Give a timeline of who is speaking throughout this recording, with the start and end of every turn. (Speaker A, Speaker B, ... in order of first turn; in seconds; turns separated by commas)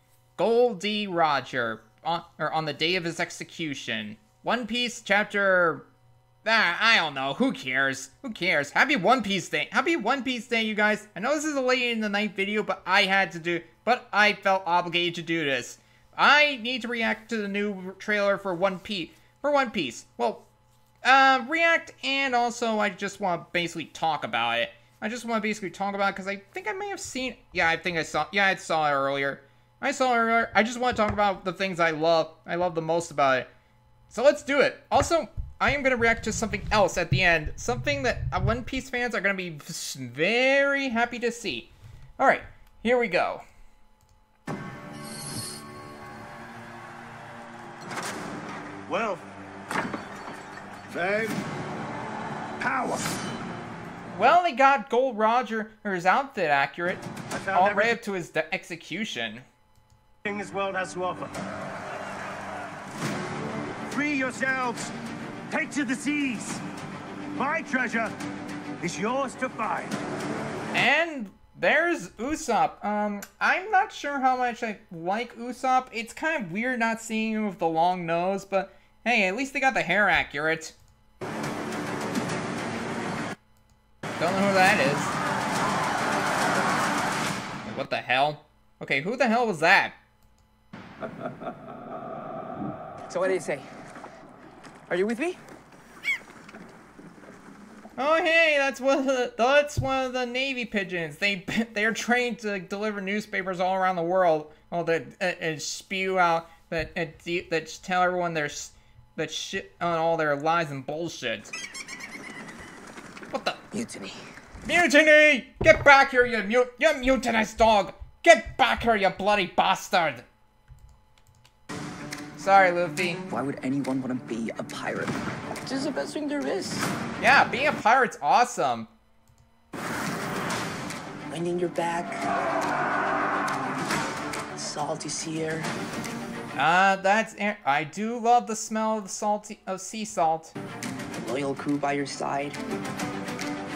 Speaker A: 0.4-5.9, Speaker A: 6.4-20.5, Speaker A: 21.0-33.5, Speaker A: 34.1-43.4, Speaker B: 48.9-49.2, Speaker B: 50.9-51.4, Speaker B: 52.6-53.1, Speaker A: 54.1-59.4, Speaker B: 57.3-58.0, Speaker B: 60.2-61.3, Speaker B: 63.9-64.9, Speaker B: 65.5-66.6, Speaker B: 67.3-68.1, Speaker B: 68.8-70.0, Speaker A: 70.7-80.8, Speaker A: 84.2-85.1, Speaker A: 87.6-90.0, Speaker C: 93.1-93.7, Speaker C: 94.9-95.4, Speaker A: 98.0-111.5, Speaker A: 113.3-113.6, Speaker C: 113.7-114.2, Speaker A: 114.6-120.2, Speaker A: 122.4-123.2, Speaker C: 123.3-126.9, Speaker A: 127.2-128.9, Speaker C: 131.3-132.2, Speaker C: 134.6-135.7, Speaker A: 136.5-140.5, Speaker C: 141.1-142.6